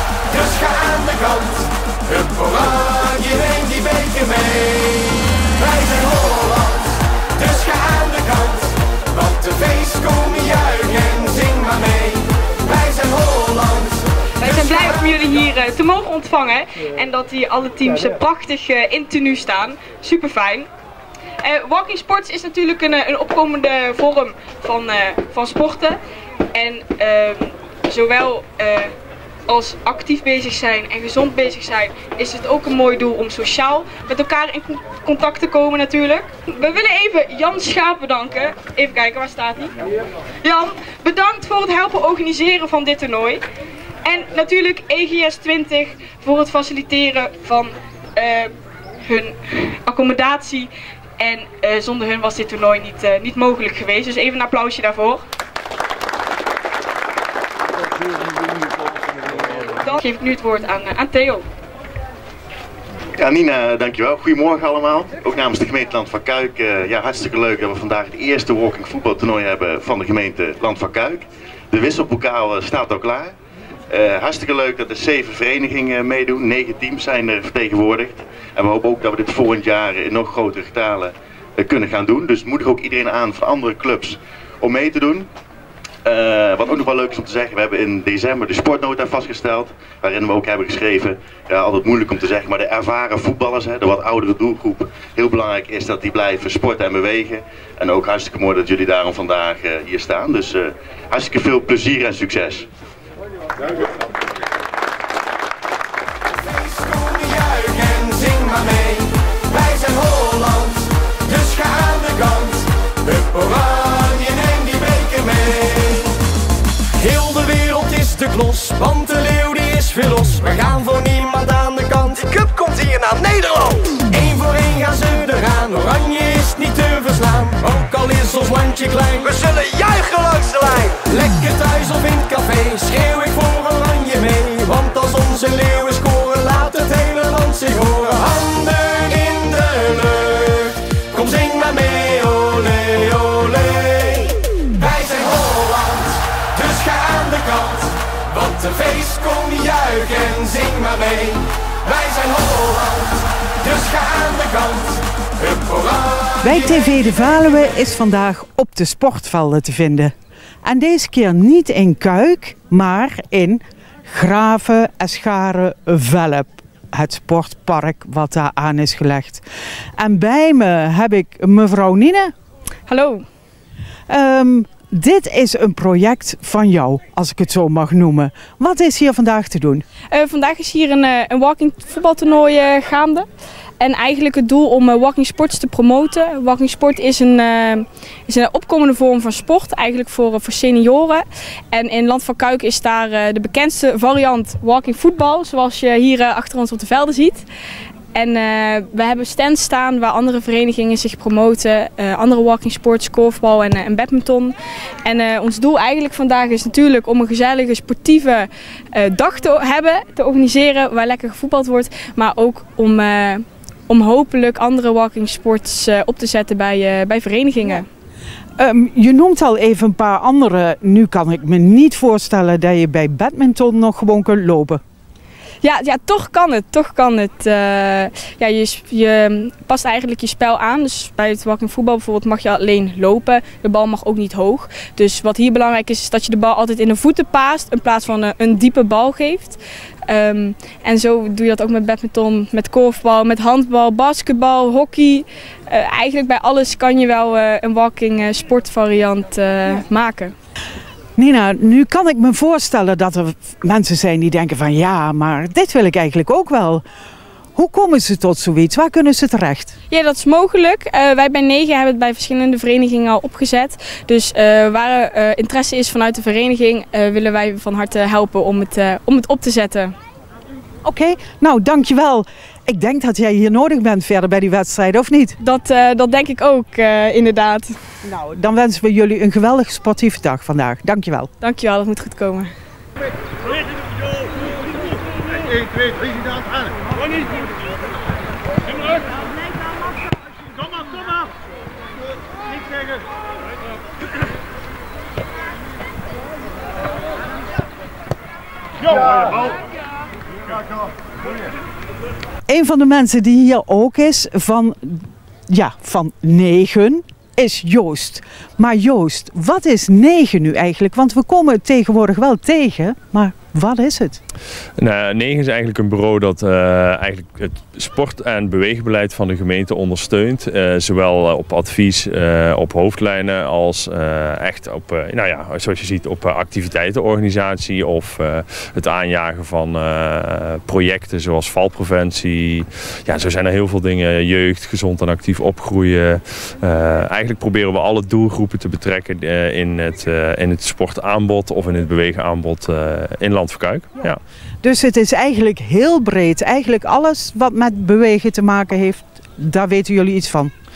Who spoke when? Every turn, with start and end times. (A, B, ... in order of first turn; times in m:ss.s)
0:00.3-0:14.0 A
0:14.4-0:20.7 B
0:21.4-0:26.0 B
0:26.5-0:28.9 B
0:29.5-0:39.7 B
0:40.4-0:43.4 B
0:44.0-0:48.5 B
0:49.0-0:55.2 B
0:59.7-1:01.4 B
1:03.2-1:11.1 C
1:11.8-1:13.2 C
1:14.2-1:18.0 C
1:18.6-1:21.0 C
1:21.6-1:24.0 C
1:24.7-1:25.2 C
1:26.1-1:37.3 C
1:37.9-1:40.6 C
1:41.2-1:42.5 C
1:46.6-1:56.1 A
1:56.9-2:35.0 A
2:35.6-2:36.3 A
2:36.4-2:40.1 D
2:40.6-2:49.4 D
2:50.0-2:52.3 D
2:52.9-2:53.2 B
2:54.1-2:59.8 D
3:00.1-3:03.3 B
3:03.8-3:17.4 B
3:18.1-3:37.9 B
3:38.6-3:44.8 D
3:45.6-4:10.3 B
4:11.2-4:16.8 D
4:17.6-4:19.7 D
4:19.9-4:29.9 B
4:30.8-4:35.4 D
4:35.4-4:37.7 B
4:38.0-4:41.3 D
4:41.4-4:42.5 B
5:02.5-5:14.2 D
5:14.8-5:44.2 E
5:44.6-5:50.5 D